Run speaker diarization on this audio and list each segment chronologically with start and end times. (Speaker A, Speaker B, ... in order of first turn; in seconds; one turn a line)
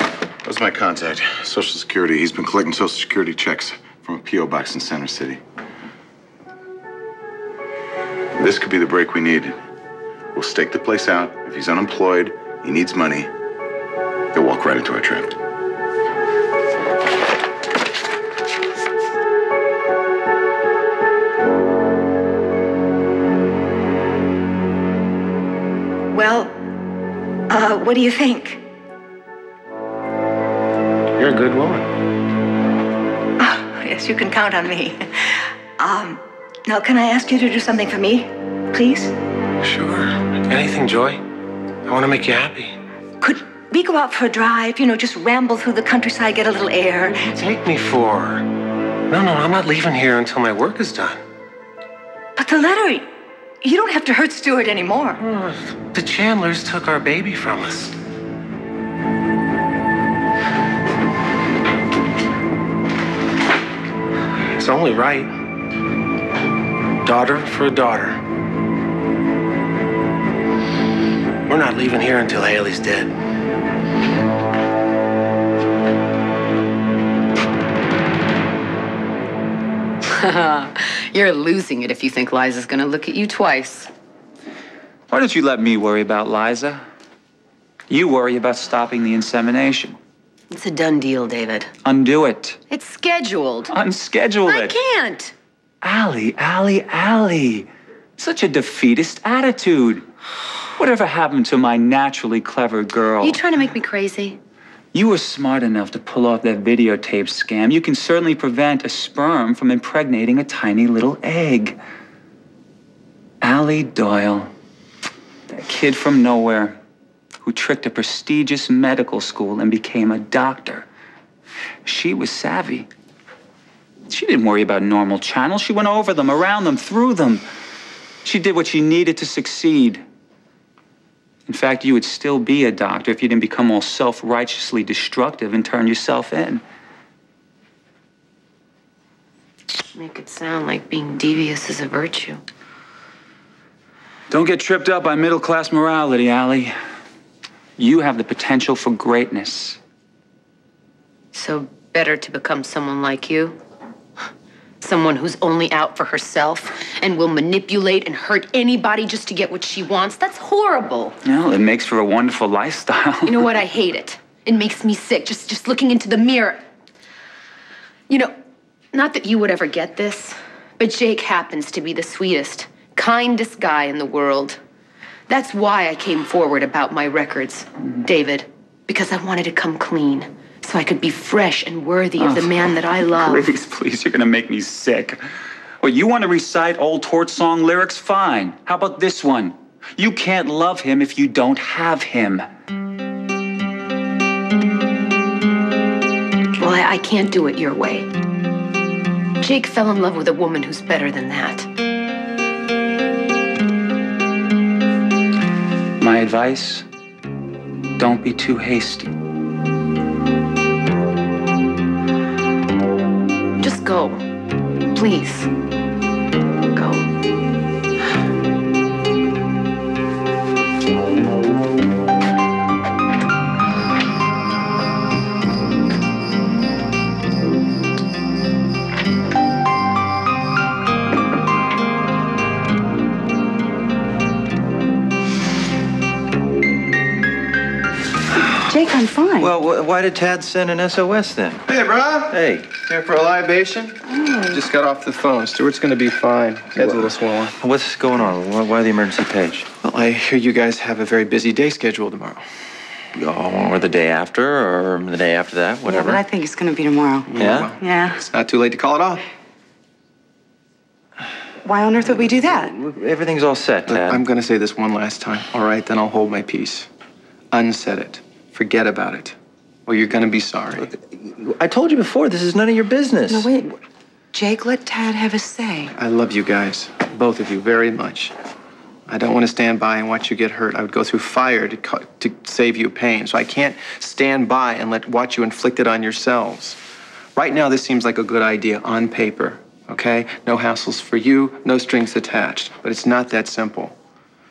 Speaker A: 0.4-5.4
Speaker A: 8.3-9.6
Speaker A: 10.3-13.3
Speaker A: 14.3-15.3
Speaker B: 26.1-26.5
Speaker B: 27.5-28.6
Speaker C: 31.2-31.9
Speaker B: 33.4-35.0
Speaker B: 35.8-39.1
Speaker C: 39.6-41.2
Speaker C: 41.9-42.8
Speaker B: 43.2-47.1
Speaker C: 47.1-48.5
Speaker C: 49.1-51.2
Speaker B: 52.4-53.1
Speaker B: 53.6-55.2
Speaker C: 55.2-57.9
Speaker C: 64.5-65.3
Speaker C: 67.0-68.2
Speaker C: 71.5-73.1
Speaker D: 80.0-83.9
Speaker E: 85.1-86.8
Speaker E: 87.9-90.0
Speaker D: 90.5-91.7
Speaker E: 91.8-92.6
Speaker D: 92.7-93.7
Speaker E: 93.7-94.8
Speaker D: 94.5-95.3
Speaker E: 95.8-97.7
Speaker E: 98.2-100.0
Speaker E: 100.8-103.4
Speaker D: 103.2-104.4
Speaker E: 104.9-111.8
Speaker E: 113.4-114.5
Speaker E: 115.5-116.8
Speaker E: 117.4-120.8
Speaker E: 121.8-122.9
Speaker E: 124.1-127.4
Speaker E: 128.2-130.0
Speaker E: 131.5-136.6
Speaker D: 139.9-142.4
Speaker E: 144.3-146.7
Speaker E: 147.8-149.8
Speaker D: 151.3-153.6
Speaker D: 154.8-161.1
Speaker E: 161.2-163.5
Speaker D: 163.2-166.6
Speaker D: 168.1-168.3
Speaker D: 168.9-174.6
Speaker D: 175.3-183.4
Speaker E: 182.2-185.2
Speaker E: 185.8-192.4
Speaker D: 196.6-198.1
Speaker D: 199.4-201.7
Speaker E: 206.0-206.8
Speaker E: 208.0-209.1
Speaker D: 213.6-214.2
Speaker D: 214.9-215.5
Speaker D: 216.7-217.1
Speaker F: 238.6-239.6
Speaker G: 239.4-241.6
Speaker H: 241.7-247.6
Speaker G: 242.3-242.7
Speaker F: 244.2-244.6
Speaker G: 247.6-249.7
Speaker H: 249.8-252.4
Speaker G: 253.2-256.2
Speaker F: 255.8-258.2
Speaker H: 257.3-259.2
Speaker G: 257.4-257.7
Speaker F: 261.6-262.8
Speaker G: 262.1-264.2
Speaker H: 263.9-266.9
Speaker H: 267.5-269.4
Speaker H: 269.9-270.9
Speaker G: 271.1-273.5
Speaker F: 273.3-273.7
Speaker F: 274.3-275.9
Speaker H: 275.9-278.3
Speaker H: 279.1-286.8
Speaker H: 287.4-293.9